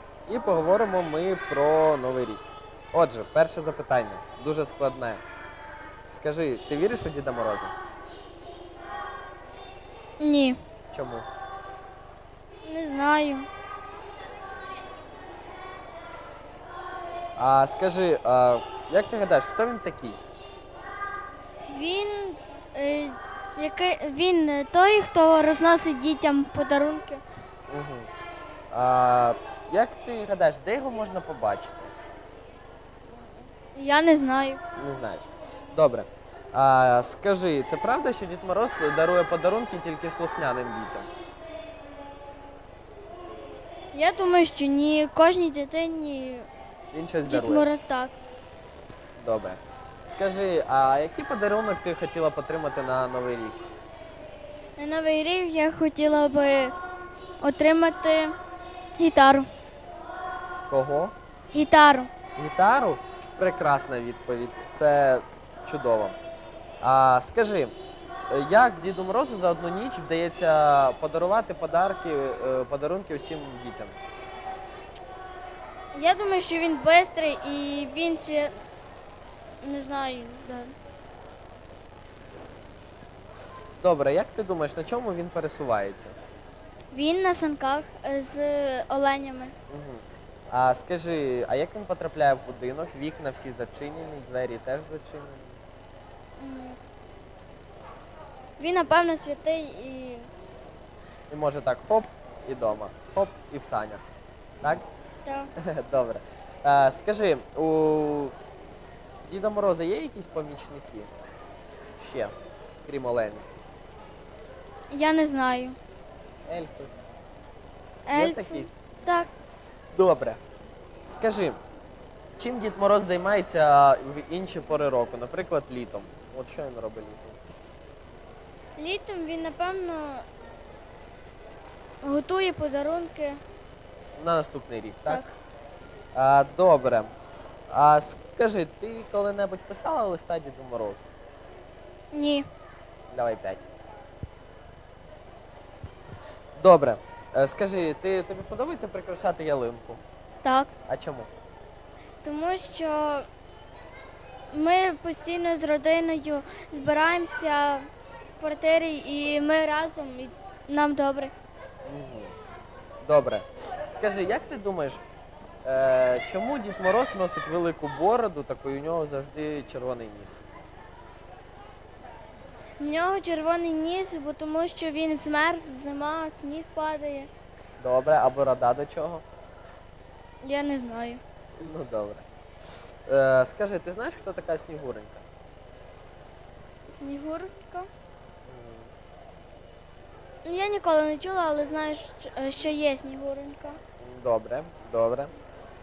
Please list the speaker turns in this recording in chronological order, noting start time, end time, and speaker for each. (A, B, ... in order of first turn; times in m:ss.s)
0:00.3-0:02.4 A
0:02.9-0:05.2 A
0:06.1-0:07.7 A
0:10.2-0:10.6 B
0:10.9-0:11.2 A
0:12.6-0:13.5 B
0:17.4-0:20.2 A
0:21.7-0:27.2 B
0:27.7-0:28.1 A
0:28.7-0:31.9 A
0:33.1-0:34.6 B
0:34.8-0:41.1 A
0:43.9-0:46.5 B
0:46.9-0:47.7 A
0:47.2-0:48.2 B
0:49.2-0:53.7 A
0:54.8-0:56.7 B
0:57.4-0:58.3 B
0:59.0-0:59.5 B
1:00.7-1:01.1 A
1:01.5-1:02.1 B
1:02.4-1:06.2 A
1:06.8-1:07.7 A
1:08.3-1:14.0 A
1:15.9-1:18.6 B
1:19.6-1:20.7 B
1:23.8-1:26.1 A
1:26.9-1:29.5 B
1:29.7-1:35.6 A
1:36.4-1:36.8 B
1:38.6-1:40.3 B
1:41.3-1:44.1 A
1:45.2-1:45.5 B
1:45.6-1:48.3 A
1:49.2-1:51.1 A
1:52.0-1:52.3 A
1:52.8-1:53.5 A
1:54.9-1:55.8 B
1:56.5-1:56.9 A
1:58.0-1:59.3 B
1:58.1-1:58.7 A
1:59.9-2:00.4 A
2:01.1-2:01.6 A
2:02.4-2:07.4 A
2:08.8-2:10.2 B
2:12.0-2:13.4 B
2:14.2-2:15.2 A
2:16.1-2:17.1 A
2:17.7-2:21.0 A
2:22.1-2:22.4 B
2:23.1-2:23.7 A
2:26.6-2:30.0 A
2:30.4-2:30.7 B
2:30.9-2:31.3 A
2:32.2-2:33.3 B
2:34.5-2:37.9 B
2:38.4-2:41.3 B
2:41.8-2:42.3 A
2:43.0-2:45.0 A
2:45.6-2:50.4 A
2:52.8-2:57.3 B
2:57.8-2:59.2 A
3:00.4-3:01.2 B
3:01.6-3:02.2 A
3:03.0-3:05.2 A
3:06.9-3:07.9 B
3:08.5-3:08.9 A
3:10.4-3:13.8 B
3:14.0-3:15.3 A